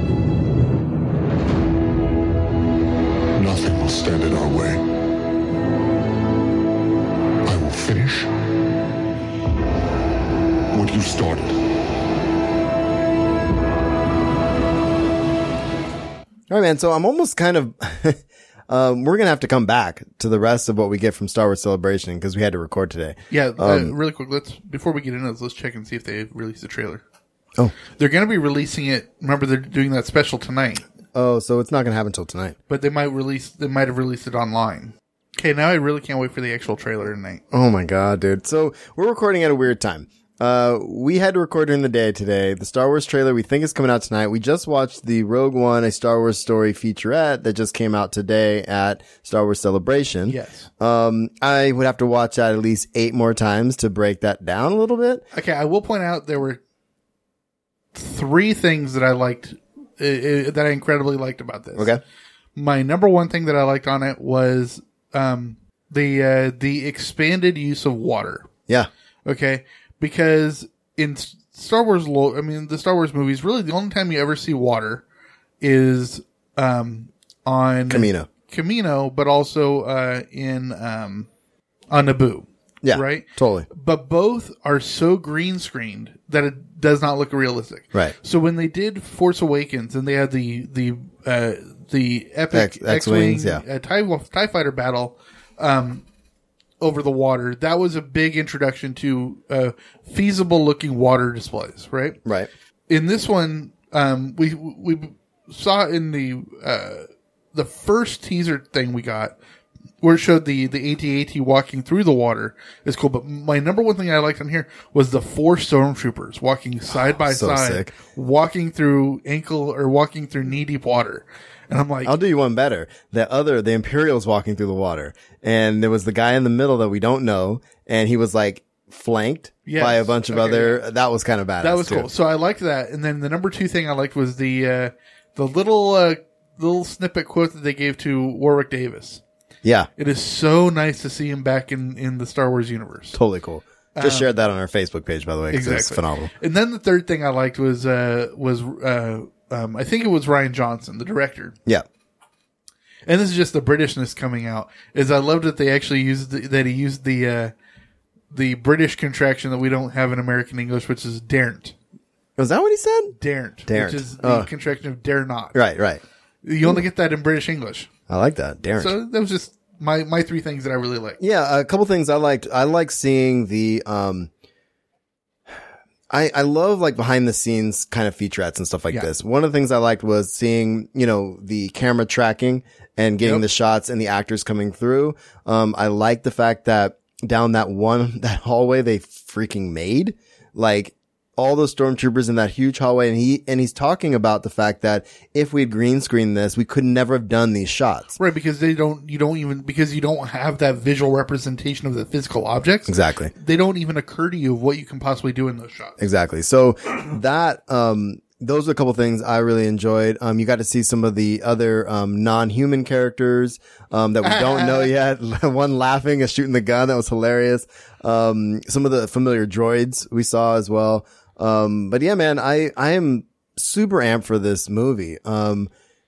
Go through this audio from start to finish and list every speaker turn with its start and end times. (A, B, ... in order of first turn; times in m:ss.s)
0:03.4-0:04.8 A
0:07.4-0:08.3 A
0:10.7-0:11.6 A
0:16.5-0:23.9 B
0:23.3-0:27.0 C
0:27.9-0:30.8 C
0:31.1-0:32.6 B
0:32.7-0:37.4 C
0:37.5-0:55.2 B
0:50.3-0:50.7 C
0:55.3-0:56.6 C
0:57.9-1:01.9 C
1:02.6-1:08.5 C
1:09.2-1:15.0 C
1:15.6-1:21.3 C
1:17.9-1:18.3 B
1:21.9-1:36.0 C
1:22.8-1:23.7 B
1:32.5-1:33.6 B
1:36.8-1:42.2 C
1:42.9-1:49.4 C
1:50.0-2:02.2 C
1:57.2-1:57.9 B
2:02.0-2:12.1 B
2:09.7-2:10.9 C
2:11.6-2:19.2 C
2:19.6-2:19.9 B
2:20.0-2:23.2 C
2:23.1-2:26.3 B
2:24.0-2:24.3 C
2:25.5-2:31.6 C
2:33.1-2:37.5 C
2:38.3-2:41.8 C
2:42.4-2:44.5 B
2:43.2-2:45.6 C
2:45.5-2:46.0 B
2:46.4-2:47.9 C
2:48.1-2:49.0 B
2:48.8-2:51.2 C
2:51.2-2:54.3 B
2:56.1-3:18.2 B
3:18.2-3:26.0 C
3:22.9-3:23.3 B
3:26.0-3:45.7 B
3:34.2-3:34.9 C